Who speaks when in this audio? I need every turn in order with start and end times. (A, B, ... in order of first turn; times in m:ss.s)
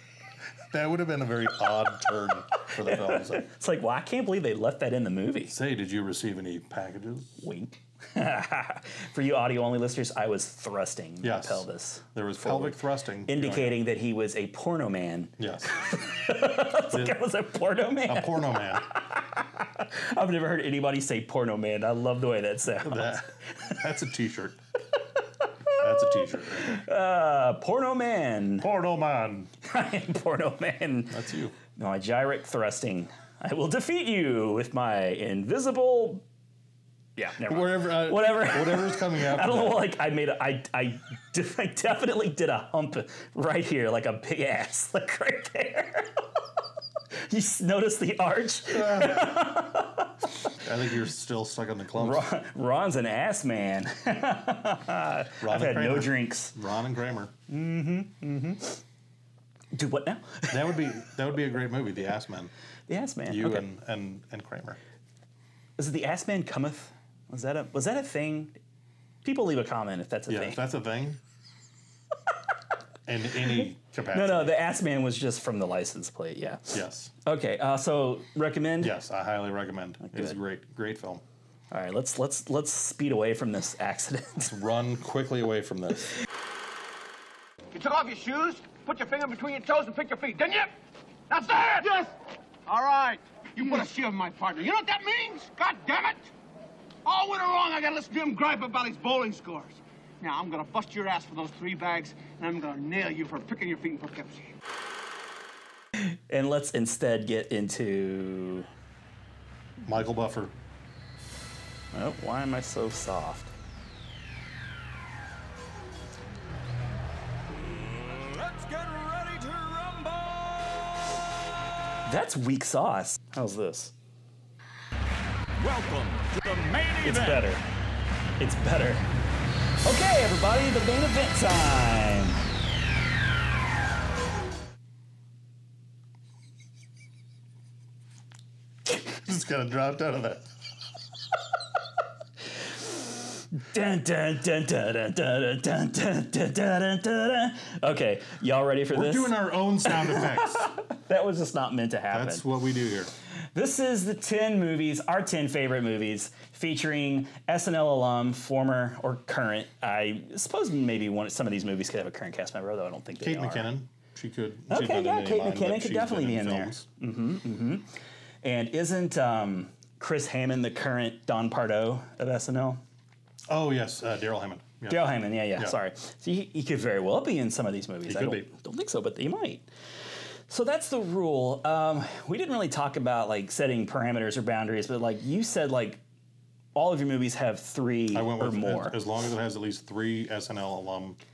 0:00.7-0:03.5 A
0:02.8-0:05.6 B
0:05.5-0:07.3 A
0:07.4-0:23.7 B
0:11.2-0:13.8 A
0:15.4-0:15.8 A
0:16.9-0:17.2 A
0:18.0-0:18.9 A
0:22.8-0:24.6 A
0:25.7-0:28.7 B
0:25.8-0:26.8 A
0:28.6-0:29.5 A
0:29.6-0:31.2 B
0:31.1-0:31.6 A
0:31.8-0:36.2 B
0:37.2-0:46.2 B
0:37.5-0:39.9 A
0:47.3-0:50.1 B
0:48.7-0:49.4 A
0:50.5-0:52.3 A
0:52.0-0:56.6 B
0:55.4-0:57.3 A
0:57.5-0:58.8 B
0:59.7-1:00.8 B
1:00.5-1:02.5 A
1:02.9-1:03.7 B
1:03.3-1:04.8 A
1:05.8-1:08.6 B
1:09.2-1:10.6 B
1:10.3-1:11.2 A
1:13.1-1:14.6 A
1:14.1-1:19.0 B
1:16.7-1:17.1 A
1:18.8-1:21.2 A
1:20.0-1:20.4 B
1:21.7-1:24.5 B
1:24.4-1:26.1 A
1:27.7-1:30.7 C
1:31.3-1:32.1 C
1:32.7-1:36.3 C
1:37.0-1:44.5 C
1:46.3-1:48.7 B
1:49.8-1:50.5 A
1:51.9-1:53.5 B
1:57.9-2:00.4 D
2:02.0-2:03.9 B
2:05.6-2:06.9 D
2:07.0-2:07.6 B
2:08.4-2:09.1 B
2:09.8-2:12.4 B
2:19.1-2:20.5 A
2:23.6-2:32.4 B
2:28.9-2:30.7 A
2:32.1-2:33.1 A
2:33.6-2:43.7 B
2:43.2-2:46.9 A
2:44.7-2:47.9 B
2:48.4-2:52.8 B
2:53.5-2:55.8 A
2:54.9-2:59.7 B
2:58.1-2:58.5 A
3:00.5-3:06.0 B
3:06.8-3:09.0 B
3:08.1-3:11.2 A